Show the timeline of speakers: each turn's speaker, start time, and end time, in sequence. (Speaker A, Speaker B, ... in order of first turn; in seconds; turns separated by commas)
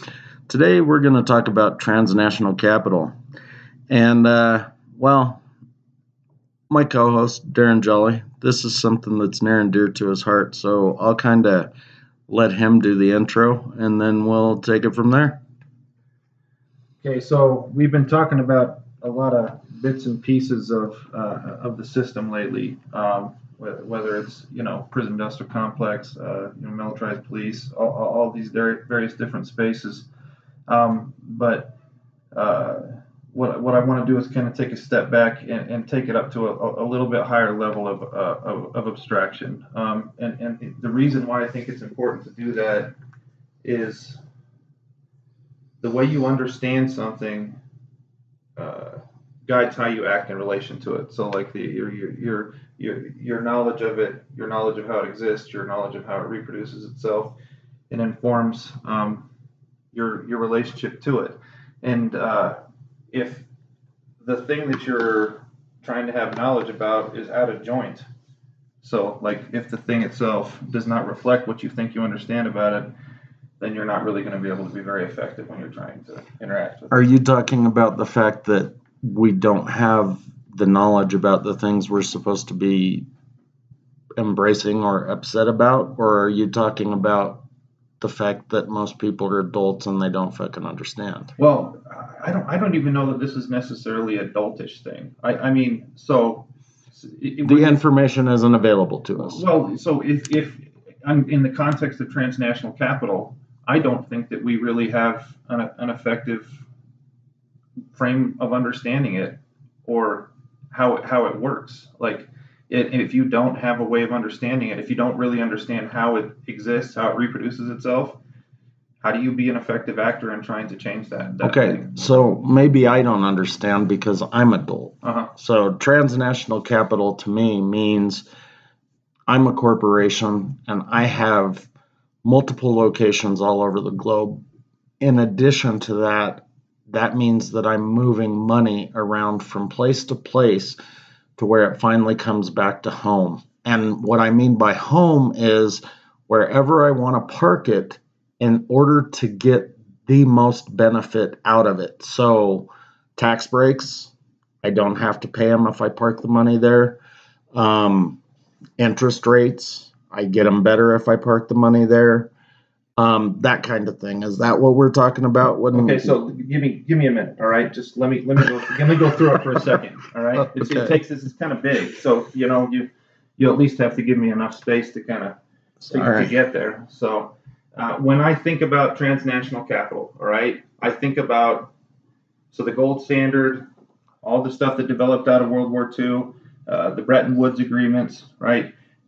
Speaker A: 0.5-3.1, Speaker A: 3.9-5.4, Speaker A: 6.7-11.7, Speaker A: 12.3-15.4, Speaker B: 17.0-30.1, Speaker B: 30.7-31.7, Speaker B: 32.3-42.9, Speaker B: 43.6-44.2, Speaker B: 45.8-47.6, Speaker B: 48.6-57.4, Speaker B: 57.9-59.3, Speaker B: 59.9-62.6, Speaker B: 63.1-63.5, Speaker B: 64.2-68.0, Speaker B: 68.8-72.9, Speaker B: 73.6-77.0, Speaker A: 76.9-83.0, Speaker A: 84.2-87.4, Speaker A: 88.0-91.3, Speaker B: 91.4-97.8, Speaker A: 97.4-99.4, Speaker B: 99.2-106.6, Speaker B: 107.9-118.2, Speaker B: 119.0-122.0, Speaker A: 121.4-128.2, Speaker B: 125.0-125.3, Speaker A: 129.3-131.7, Speaker A: 132.2-134.4, Speaker A: 135.0-140.8, Speaker A: 141.4-157.0, Speaker A: 157.5-158.2, Speaker A: 158.8-162.3, Speaker A: 163.0-166.2, Speaker B: 165.7-175.4, Speaker A: 170.4-170.9, Speaker A: 175.8-176.3, Speaker B: 175.9-181.7, Speaker B: 182.5-183.7, Speaker B: 184.2-188.7